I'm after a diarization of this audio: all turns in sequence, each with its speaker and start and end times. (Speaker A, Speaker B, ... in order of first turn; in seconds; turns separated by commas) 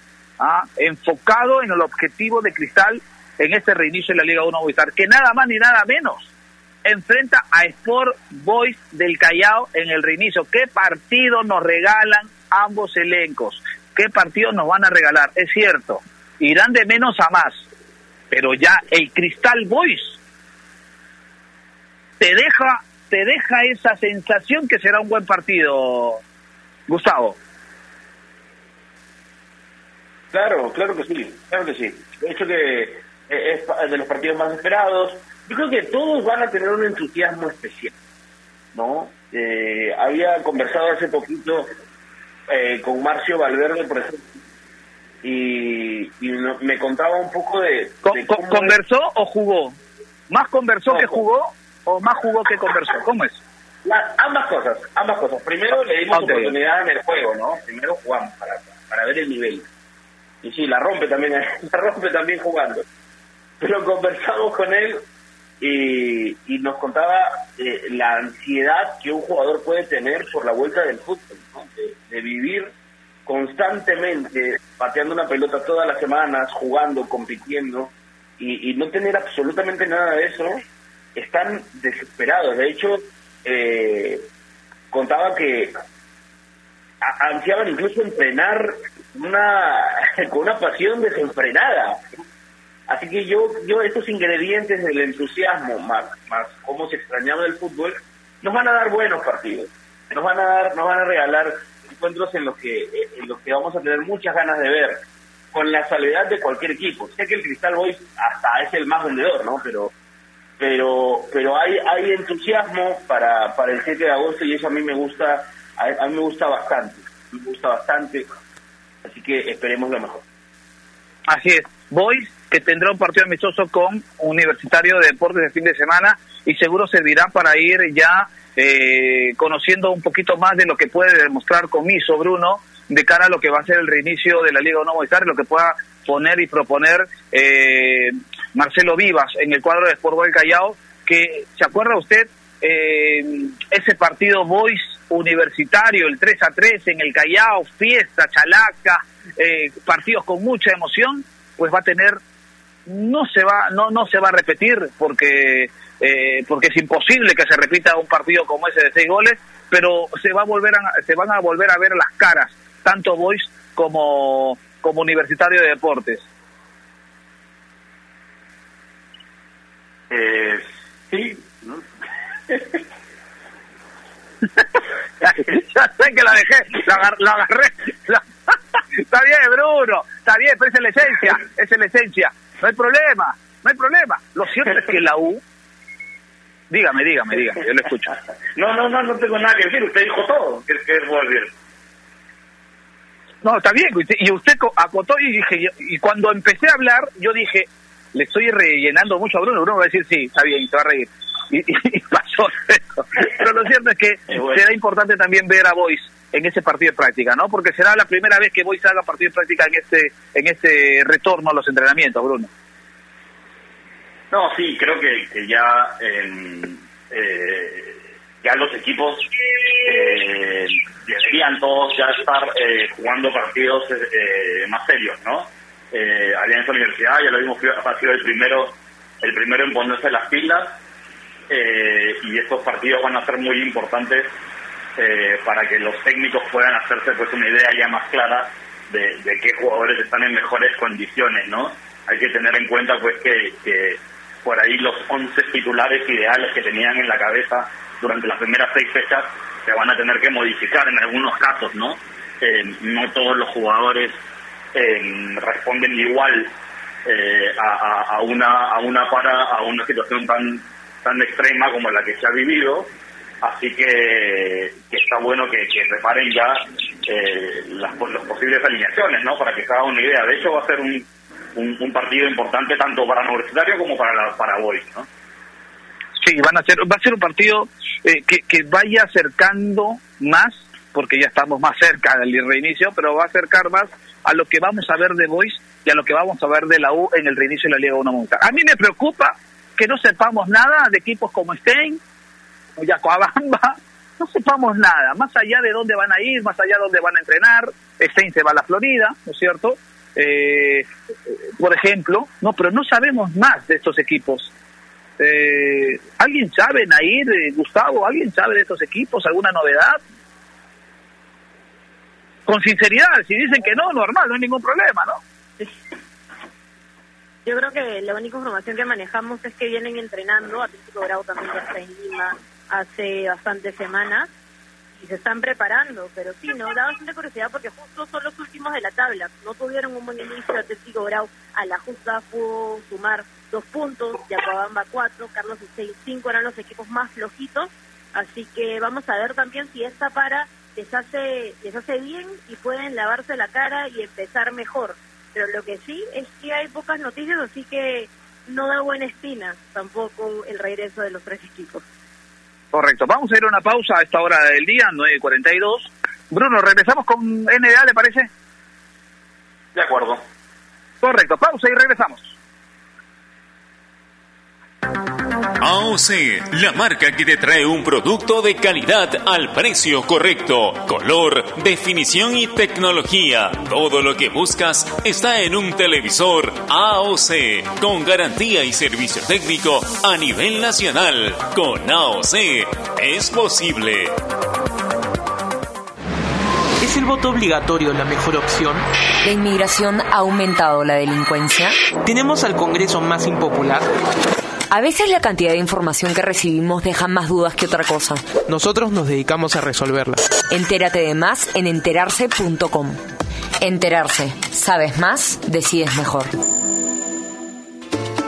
Speaker A: 0.4-6.3, Speaker A: 6.8-17.6, Speaker A: 18.3-20.2, Speaker A: 22.2-26.2, Speaker A: 26.9-27.4, Speaker B: 30.3-37.9, Speaker B: 38.7-41.7, Speaker B: 42.5-44.3, Speaker B: 45.2-48.7, Speaker A: 48.0-49.8, Speaker A: 50.3-53.4, Speaker B: 50.9-51.2, Speaker B: 53.8-59.7, Speaker A: 56.1-56.5, Speaker B: 60.4-62.9, Speaker B: 63.6-65.0, Speaker B: 65.6-72.7, Speaker B: 73.2-80.6, Speaker B: 81.2-84.2, Speaker B: 84.9-85.7, Speaker B: 87.0-92.2, Speaker B: 92.9-105.0, Speaker B: 105.5-109.9, Speaker B: 110.6-118.3, Speaker B: 119.0-120.2, Speaker A: 121.3-152.2, Speaker A: 152.8-166.2, Speaker C: 170.1-171.8, Speaker C: 172.5-172.8, Speaker A: 175.2-185.4, Speaker A: 186.7-188.1, Speaker C: 188.6-191.5, Speaker A: 193.4-212.5, Speaker C: 204.3-204.6, Speaker C: 214.3-219.3, Speaker C: 219.8-230.8, Speaker C: 231.5-234.3, Speaker C: 235.0-254.2, Speaker C: 254.7-256.5, Speaker C: 257.0-262.9, Speaker C: 263.4-275.1, Speaker A: 276.2-292.0, Speaker A: 292.8-304.5, Speaker A: 305.2-310.0, Speaker A: 312.4-315.2, Speaker D: 317.4-324.3, Speaker D: 324.9-351.8, Speaker A: 352.7-358.3, Speaker C: 359.7-360.2, Speaker A: 361.0-362.3, Speaker E: 365.6-384.1, Speaker F: 386.8-388.9, Speaker G: 389.2-391.7, Speaker F: 392.0-393.9, Speaker G: 394.7-398.2, Speaker F: 398.4-400.3, Speaker G: 400.5-403.0, Speaker G: 403.6-406.4